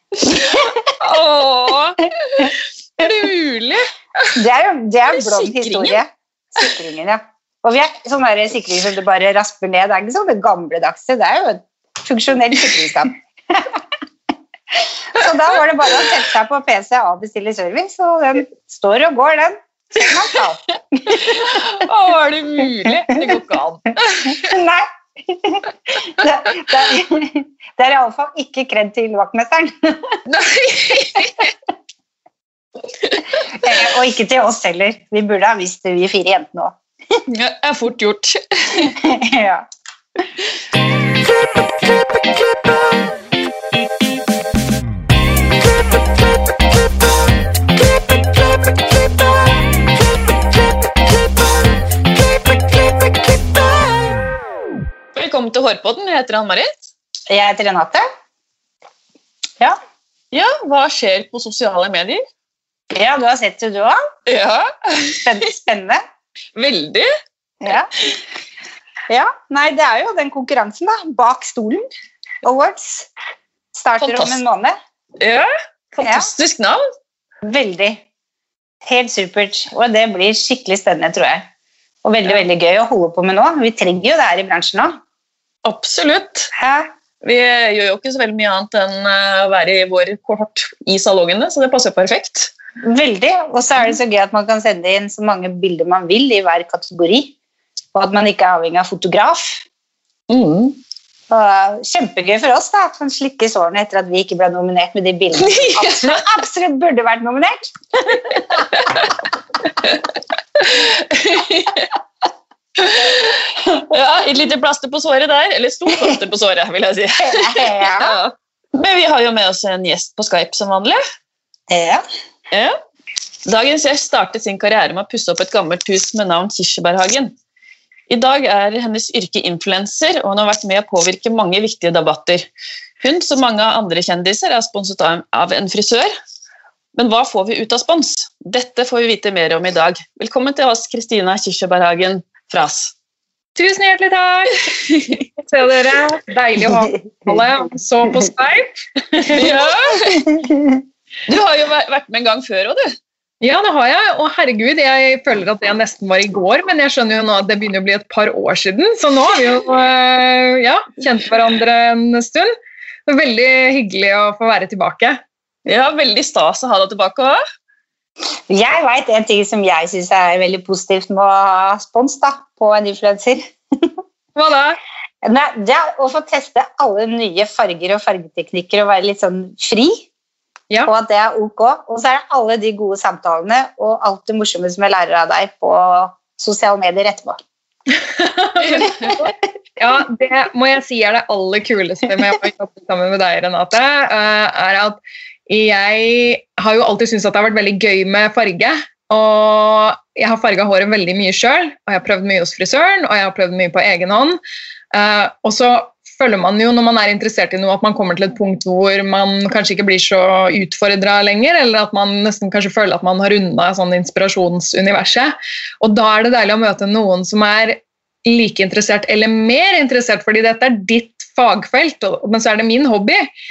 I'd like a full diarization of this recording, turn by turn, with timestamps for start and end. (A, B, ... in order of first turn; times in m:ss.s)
0:00.3-0:00.6 A
0:00.3-0:04.3 B
0:04.3-0:13.7 A
0:05.3-0:06.0 B
0:14.8-0:21.6 A
0:21.1-0:24.4 B
0:24.3-0:30.2 A
0:30.3-0:31.4 B
0:33.6-0:36.7 A
0:37.3-0:38.9 B
0:38.8-0:39.6 A
0:55.1-0:56.8 B
0:57.3-0:58.0 A
1:00.3-1:02.2 B
1:02.9-1:04.0 A
1:04.3-1:05.2 B
1:05.2-1:06.0 A
1:06.6-1:07.1 B
1:07.6-1:07.9 A
1:09.1-1:11.8 A
1:12.4-1:13.1 A
1:13.7-1:14.8 A
1:14.0-1:14.4 B
1:15.2-1:16.8 B
1:16.0-1:16.3 A
1:17.4-1:18.0 A
1:18.8-1:21.4 A
1:22.0-1:24.9 A
1:25.6-1:26.5 B
1:26.6-1:26.9 A
1:27.2-1:32.5 B
1:32.8-1:37.3 A
1:37.9-1:39.6 A
1:40.3-1:40.8 B
1:41.3-1:48.6 A
1:45.4-1:46.2 B
1:50.6-1:51.9 B
1:52.8-2:01.0 B
1:57.2-1:58.1 A
2:01.7-2:02.0 A
2:03.4-2:07.3 B
2:08.1-2:12.4 B
2:13.0-2:16.1 B
2:17.0-2:22.9 B
2:23.6-2:24.7 C
2:24.8-2:25.2 B
2:25.4-2:29.6 C
2:29.3-2:30.3 B
2:30.3-2:30.7 A
2:31.3-2:32.9 B
2:33.4-2:42.5 C
2:43.0-2:45.2 C
2:45.6-2:47.4 B
2:48.5-2:53.9 A
2:54.3-2:54.8 C
2:55.2-3:00.0 A
3:00.8-3:07.4 A
3:07.9-3:24.4 C
3:08.6-3:09.1 B
3:24.9-3:43.3 C